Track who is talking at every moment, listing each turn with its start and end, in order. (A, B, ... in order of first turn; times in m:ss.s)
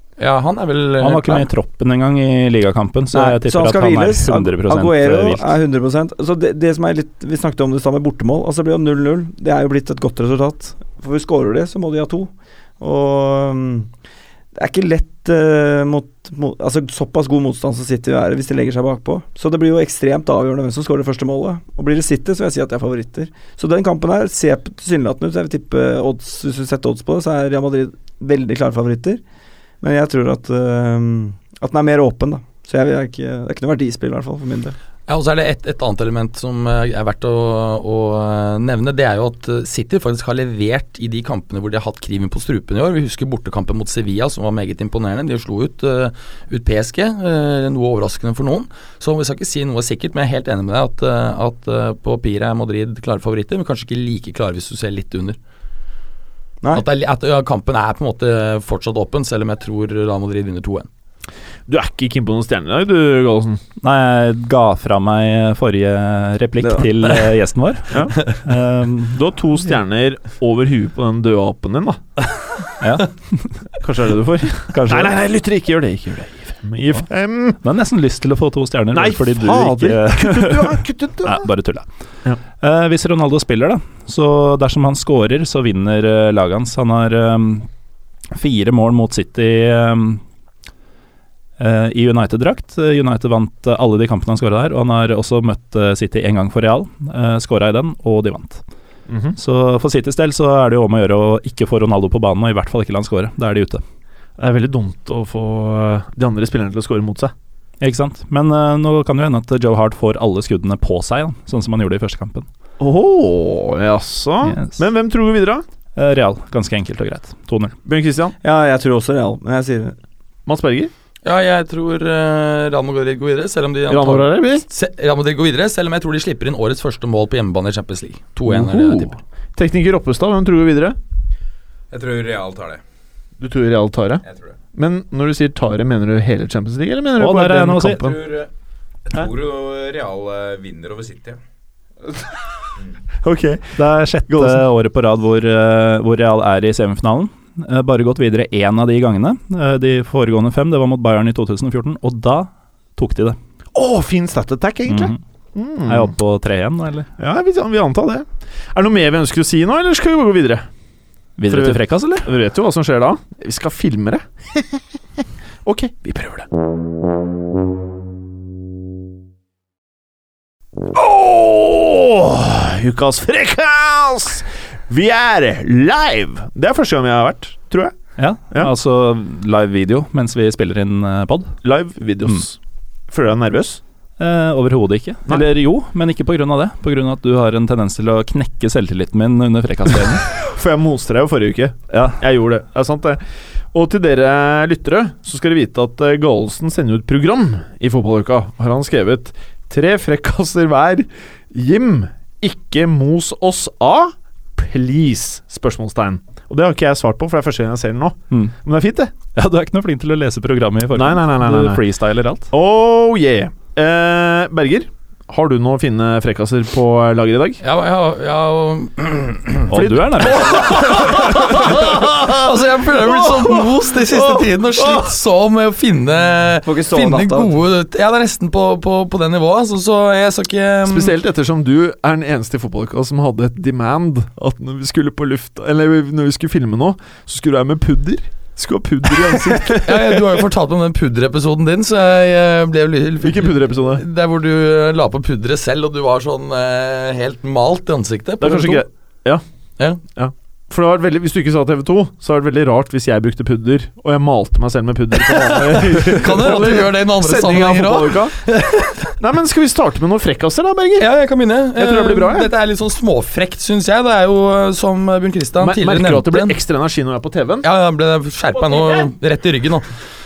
0:00.2-0:01.4 A
0:01.0-0:05.5 B
0:03.1-0:13.9 C
0:14.5-0:29.2 C
0:29.8-0:34.8 C
0:35.1-0:55.4 A
0:56.7-1:00.9 A
1:01.7-1:03.6 D
1:03.8-1:09.2 B
1:09.1-1:12.0 D
1:12.8-1:13.6 B
1:13.8-1:17.6 D
1:14.7-1:15.2 B
1:17.6-1:21.8 B
1:18.9-1:21.4 D
1:22.6-1:27.7 B
1:28.3-1:30.2 B
1:31.6-1:38.6 B
1:39.1-1:39.4 D
1:39.4-1:43.8 B
1:44.4-1:47.3 D
1:47.8-1:52.5 B
1:52.8-1:55.6 D
1:54.4-1:54.8 B
1:56.0-1:57.8 B
1:57.8-1:58.3 D
1:58.4-1:59.9 C
2:00.5-2:00.9 D
2:01.2-2:09.1 A
2:03.9-2:04.6 D
2:08.4-2:11.0 D
2:11.9-2:12.8 E
2:13.4-2:14.2 D
2:14.7-2:18.1 D
2:17.2-2:18.1 B
2:18.0-2:18.5 E
2:19.1-2:21.4 E
2:23.2-2:24.6 D
2:23.8-2:33.4 B
2:33.7-2:36.1 D
2:34.9-2:35.2 B
2:35.9-2:37.1 B
2:37.2-2:40.6 D
2:41.4-2:42.3 B
2:41.5-2:44.8 D
2:45.6-2:46.5 D
2:50.9-2:57.9 D
2:58.2-3:01.5 B
3:01.6-3:02.6 D
3:03.1-3:03.8 D
3:04.2-3:10.2 B
3:10.2-3:13.2 D
3:13.7-3:29.1 D
3:29.3-3:32.5 B
3:30.9-3:31.8 D
3:32.5-3:37.6 D
3:37.6-3:39.7 A
3:39.7-3:41.5 B
3:39.7-3:45.1 D
3:40.3-3:51.1 A
3:46.6-3:47.5 C
3:50.8-4:00.4 D
3:59.8-4:08.8 A
4:03.2-4:04.0 D
4:08.4-4:09.4 D
4:10.1-4:18.4 D
4:15.3-4:19.1 A
4:19.2-4:21.1 D
4:21.0-4:26.6 A
4:21.7-4:22.5 D
4:25.6-4:27.6 D
4:27.6-4:29.8 A
4:28.6-4:29.1 D